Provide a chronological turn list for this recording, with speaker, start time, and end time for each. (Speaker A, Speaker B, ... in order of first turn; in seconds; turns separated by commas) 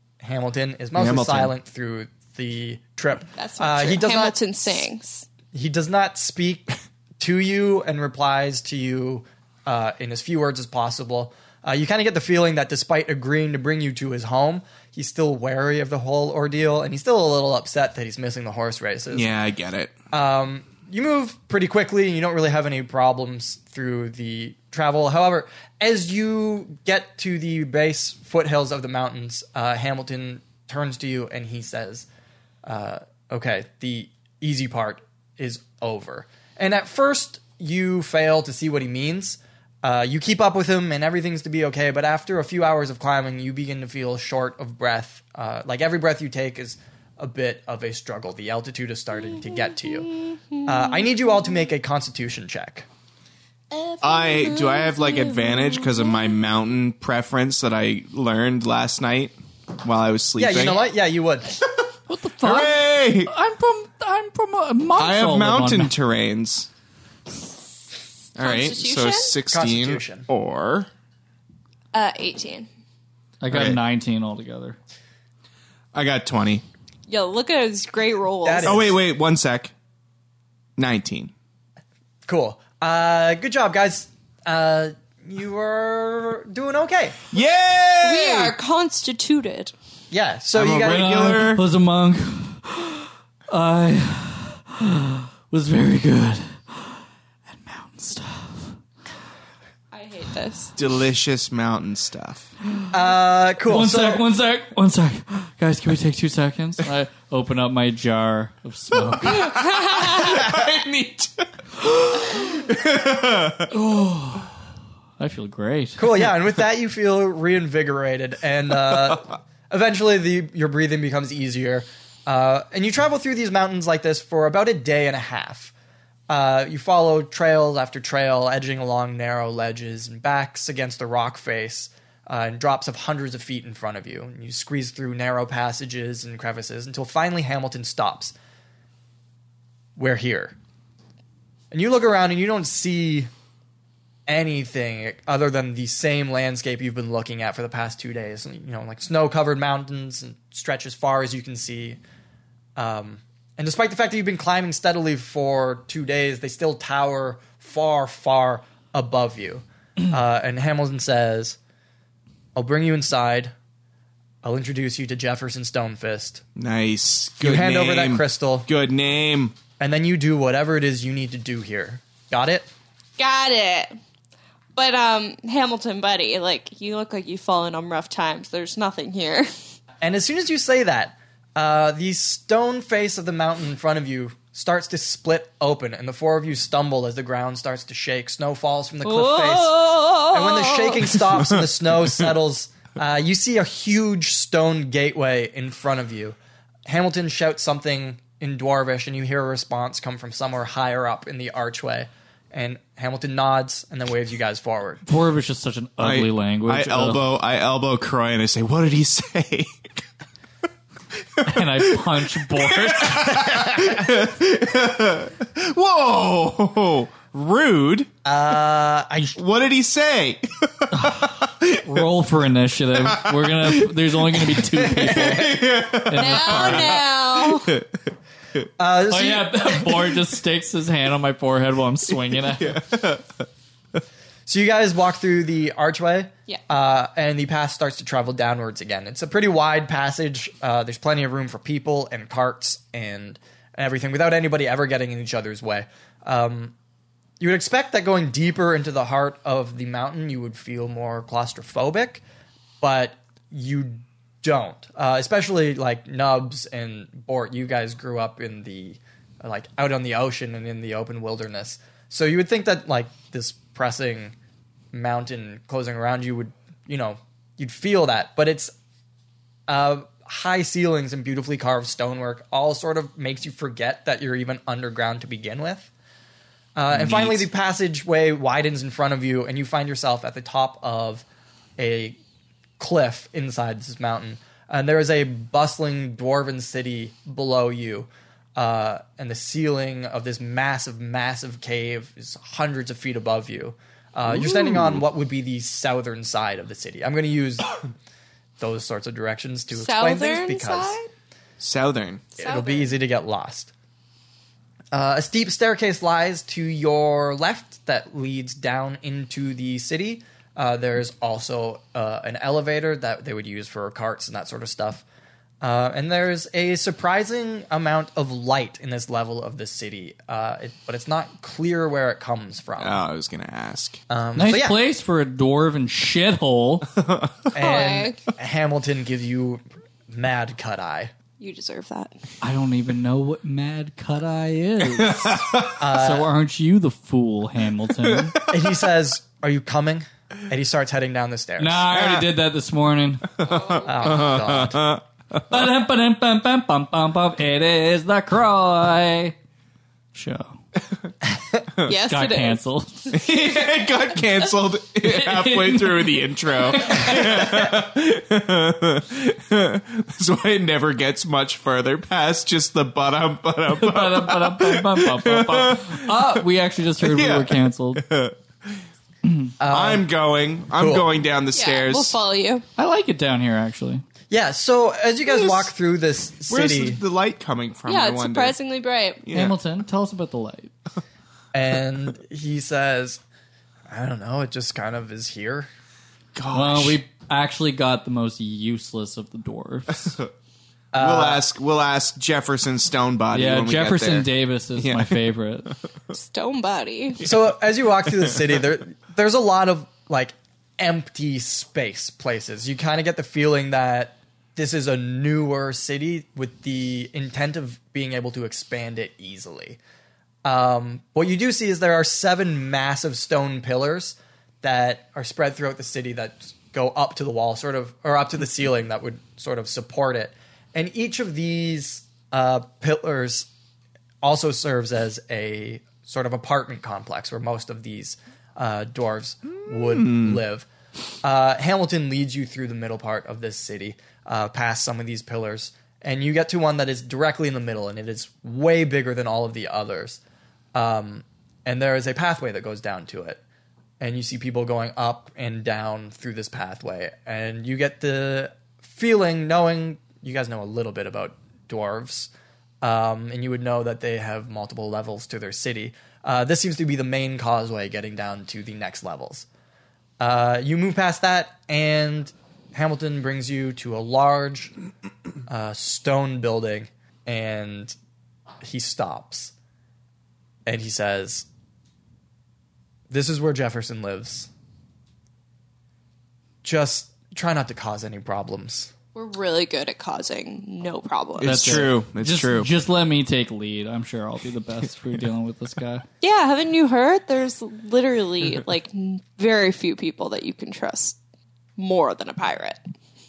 Speaker A: 0.2-4.4, Speaker B: 0.9-1.5, Speaker C: 3.4-5.3, Speaker A: 5.5-19.3, Speaker B: 19.1-19.9, Speaker A: 20.1-32.1, Speaker A: 32.6-52.9, Speaker C: 50.1-51.0, Speaker C: 53.7-56.2, Speaker B: 54.0-60.8, Speaker A: 60.4-61.6, Speaker D: 62.1-65.9, Speaker B: 62.4-63.3, Speaker B: 64.9-66.7, Speaker B: 68.3-70.9, Speaker C: 68.4-69.3, Speaker A: 69.5-70.3, Speaker C: 71.9-72.7, Speaker D: 73.4-74.8, Speaker B: 73.5-73.8, Speaker B: 75.9-76.6, Speaker C: 77.1-78.7, Speaker A: 78.4-79.0, Speaker B: 78.6-79.7, Speaker B: 80.8-81.3, Speaker A: 82.3-87.2, Speaker B: 87.3-88.5, Speaker C: 88.0-89.7, Speaker A: 90.1-91.4, Speaker B: 90.5-91.6, Speaker D: 90.8-98.8, Speaker C: 99.9-100.7, Speaker B: 100.8-102.5, Speaker A: 102.9-104.2, Speaker D: 103.7-109.6, Speaker B: 109.0-111.5, Speaker C: 109.5-110.4, Speaker D: 111.8-112.6, Speaker B: 112.2-113.7, Speaker D: 113.7-114.5, Speaker D: 115.2-116.1, Speaker A: 116.0-125.7, Speaker A: 126.3-138.3, Speaker A: 140.0-140.5, Speaker A: 141.7-143.3, Speaker A: 144.3-152.0, Speaker A: 152.8-161.6, Speaker A: 162.5-163.5, Speaker A: 164.4-166.4, Speaker B: 166.6-169.6, Speaker A: 167.4-168.7, Speaker A: 169.8-172.7, Speaker C: 173.2-173.9, Speaker C: 174.7-179.5, Speaker A: 180.0-196.3, Speaker C: 189.0-191.2, Speaker B: 191.3-191.7, Speaker A: 196.9-205.0, Speaker D: 205.1-207.2, Speaker B: 206.0-210.0, Speaker B: 211.4-218.1, Speaker D: 211.4-213.5, Speaker A: 218.2-219.4, Speaker B: 219.3-222.1, Speaker D: 220.9-227.0, Speaker B: 223.0-228.0, Speaker C: 226.2-227.7, Speaker A: 228.8-230.1, Speaker D: 229.1-232.8, Speaker B: 232.3-233.4, Speaker A: 234.4-246.7, Speaker A: 247.4-252.2, Speaker A: 252.8-264.3, Speaker A: 264.9-268.7, Speaker A: 269.7-275.9, Speaker A: 276.8-281.2, Speaker B: 276.9-277.5, Speaker A: 281.8-282.2, Speaker A: 282.8-297.8, Speaker B: 294.2-295.0, Speaker A: 298.6-301.0, Speaker C: 299.7-301.1, Speaker B: 301.6-302.2, Speaker C: 302.4-302.9, Speaker A: 302.4-303.7, Speaker A: 304.9-315.0, Speaker A: 315.6-323.0, Speaker B: 322.8-324.0, Speaker A: 324.1-324.8, Speaker D: 324.3-326.9, Speaker B: 327.0-327.3, Speaker A: 327.5-331.1, Speaker C: 327.6-328.2, Speaker C: 331.4-332.1, Speaker D: 332.4-338.4, Speaker B: 334.9-335.8, Speaker A: 335.8-336.3, Speaker B: 338.0-338.7, Speaker A: 338.5-341.9, Speaker D: 341.6-343.3, Speaker B: 341.9-342.3, Speaker B: 343.4-345.7, Speaker C: 343.4-343.9, Speaker A: 343.9-344.8, Speaker D: 345.5-349.3, Speaker D: 350.1-350.6, Speaker C: 351.8-353.1, Speaker D: 351.9-353.1, Speaker B: 353.1-366.4, Speaker D: 355.0-357.6, Speaker D: 363.7-368.0, Speaker B: 367.0-368.8, Speaker A: 369.6-370.1, Speaker B: 369.7-372.2, Speaker A: 370.8-371.1, Speaker C: 371.5-372.6, Speaker D: 372.8-374.0, Speaker A: 374.3-377.0, Speaker B: 375.2-375.7, Speaker B: 376.5-378.6, Speaker C: 377.9-379.2, Speaker B: 379.2-379.6, Speaker D: 379.3-380.7, Speaker A: 381.5-383.2, Speaker A: 383.9-385.7, Speaker B: 386.3-387.0, Speaker D: 386.5-390.2, Speaker A: 390.9-391.4, Speaker B: 391.0-395.2, Speaker D: 393.3-395.7, Speaker C: 396.1-397.2, Speaker A: 397.2-409.8, Speaker A: 410.4-423.5, Speaker A: 424.2-430.7, Speaker B: 429.7-430.4, Speaker A: 431.2-440.2, Speaker A: 440.7-443.4, Speaker A: 444.0-452.3, Speaker A: 452.8-459.4, Speaker A: 460.2-464.7, Speaker A: 465.5-467.9, Speaker A: 468.6-469.5, Speaker A: 470.6-471.5, Speaker A: 473.1-474.5, Speaker A: 476.6-478.9, Speaker C: 479.1-481.8, Speaker B: 481.4-482.7, Speaker D: 481.4-486.0, Speaker C: 486.2-491.2, Speaker C: 491.8-492.8